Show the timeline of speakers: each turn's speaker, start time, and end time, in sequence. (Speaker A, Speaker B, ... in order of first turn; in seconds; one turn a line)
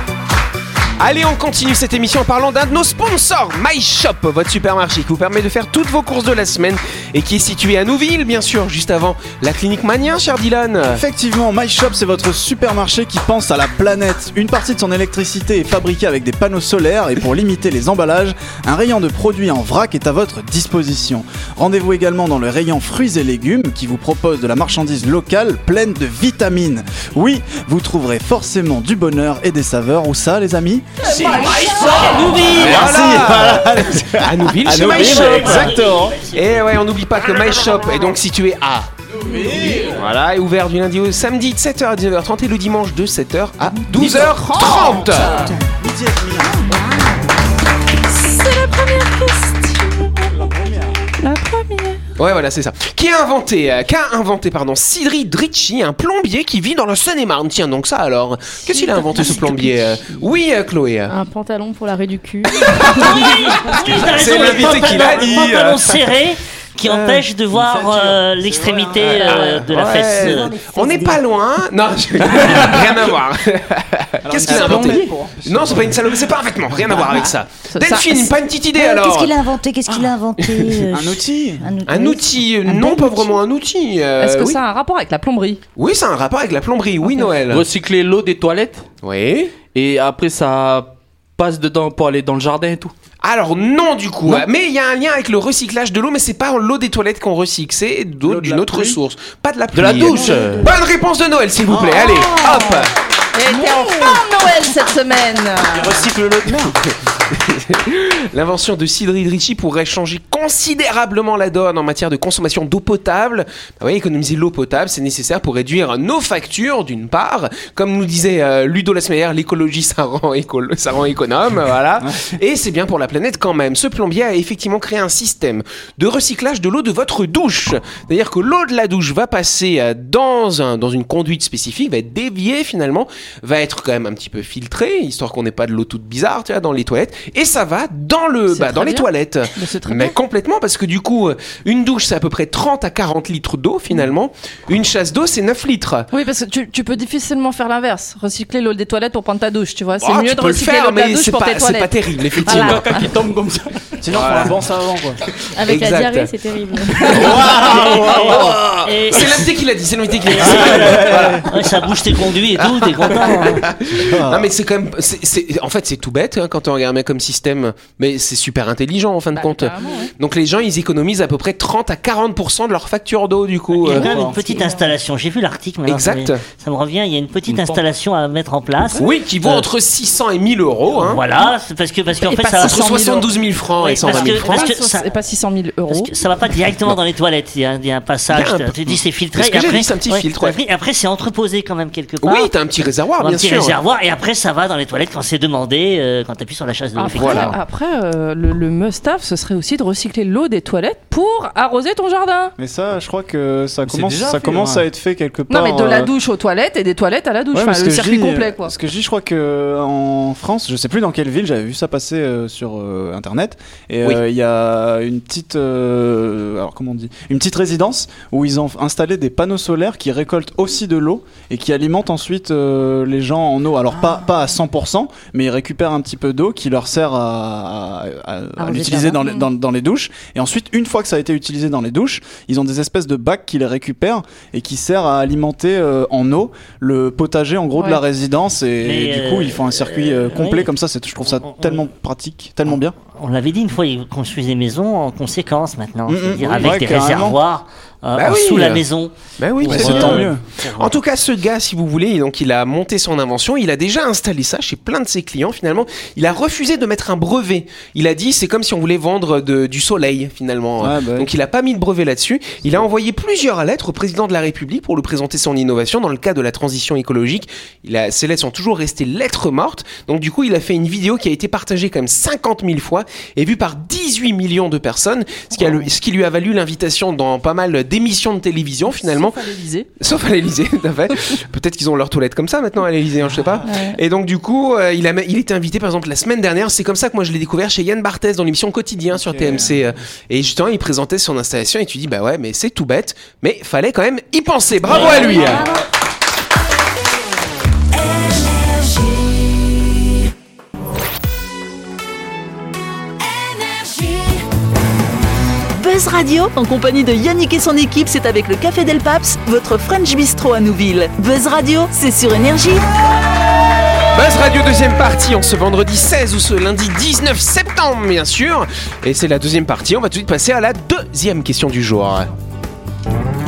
Speaker A: 1.0-11.0
Speaker B: 10.8-31.0
Speaker A: 31.0-31.5
Speaker C: 31.6-32.9
Speaker A: 32.2-38.9
Speaker B: 32.4-36.2
Speaker C: 34.7-36.8
Speaker D: 39.2-40.0
Speaker B: 39.2-40.0
Speaker A: 39.8-45.3
Speaker B: 43.8-46.7
Speaker E: 46.7-47.1
Speaker F: 48.1-50.4
Speaker B: 50.3-51.0
Speaker F: 51.2-52.0
Speaker A: 52.2-61.1
Speaker F: 58.7-59.8
Speaker G: 61.1-63.4
Speaker C: 62.7-70.5
Speaker A: 63.0-66.0
Speaker A: 66.8-67.2
Speaker B: 67.5-69.4
Speaker A: 69.0-79.3
Speaker E: 70.2-71.2
Speaker B: 74.2-77.1
Speaker F: 74.6-74.9
Speaker F: 77.7-78.3
Speaker E: 78.7-83.4
Speaker B: 80.9-81.7
Speaker A: 81.8-84.6
Speaker F: 84.2-85.6
Speaker A: 85.8-87.7
Speaker F: 87.0-87.3
Speaker D: 87.5-88.8
Speaker A: 89.0-89.5
Speaker D: 89.7-92.9
Speaker A: 93.2-102.9
Speaker B: 98.2-99.0
Speaker D: 99.7-100.7
Speaker E: 100.1-100.8
Speaker B: 101.7-102.7
Speaker F: 103.3-106.1
Speaker B: 105.7-106.8
Speaker A: 107.3-146.1
Speaker B: 122.0-122.3
Speaker F: 138.5-140.2
Speaker F: 146.1-153.1
Speaker A: 150.0-152.9
Speaker D: 152.5-154.2
Speaker B: 154.0-155.2
Speaker A: 154.1-154.6
Speaker G: 155.5-157.2
Speaker A: 155.6-156.3
Speaker A: 157.0-158.5
Speaker B: 157.1-158.6
Speaker D: 157.4-158.7
Speaker C: 157.8-159.4
Speaker A: 159.1-161.4
Speaker C: 160.3-163.6
Speaker B: 160.3-161.4
Speaker A: 162.5-174.1
Speaker B: 163.9-164.5
Speaker F: 169.3-170.1
Speaker C: 173.8-179.7
Speaker B: 173.9-174.4
Speaker F: 174.4-174.8
Speaker A: 175.9-176.4
Speaker D: 177.5-177.8
Speaker A: 179.0-181.2
Speaker C: 180.9-183.0
Speaker F: 182.2-183.3
Speaker A: 182.6-184.7
Speaker C: 183.8-185.1
Speaker F: 183.8-186.1
Speaker C: 185.9-192.5
Speaker A: 188.3-190.6
Speaker A: 192.2-193.8
Speaker C: 193.2-197.6
Speaker F: 196.9-202.5
Speaker A: 197.1-197.5
Speaker B: 202.6-206.1
Speaker D: 203.8-204.9
Speaker F: 205.5-208.7
Speaker B: 207.5-242.9
Speaker E: 228.6-229.2
Speaker F: 237.8-238.0
Speaker C: 238.8-240.7
Speaker C: 241.4-241.8
Speaker C: 243.1-250.9
Speaker B: 246.1-247.4
Speaker A: 248.1-248.8
Speaker A: 249.4-279.4
Speaker B: 249.6-250.4
Speaker B: 260.8-261.3
Speaker F: 278.9-279.9
Speaker A: 280.0-295.6
Speaker F: 283.6-284.0
Speaker B: 289.1-289.9
Speaker E: 294.9-295.8
Speaker H: 298.3-298.9
Speaker H: 305.8-312.9
Speaker A: 314.1-322.3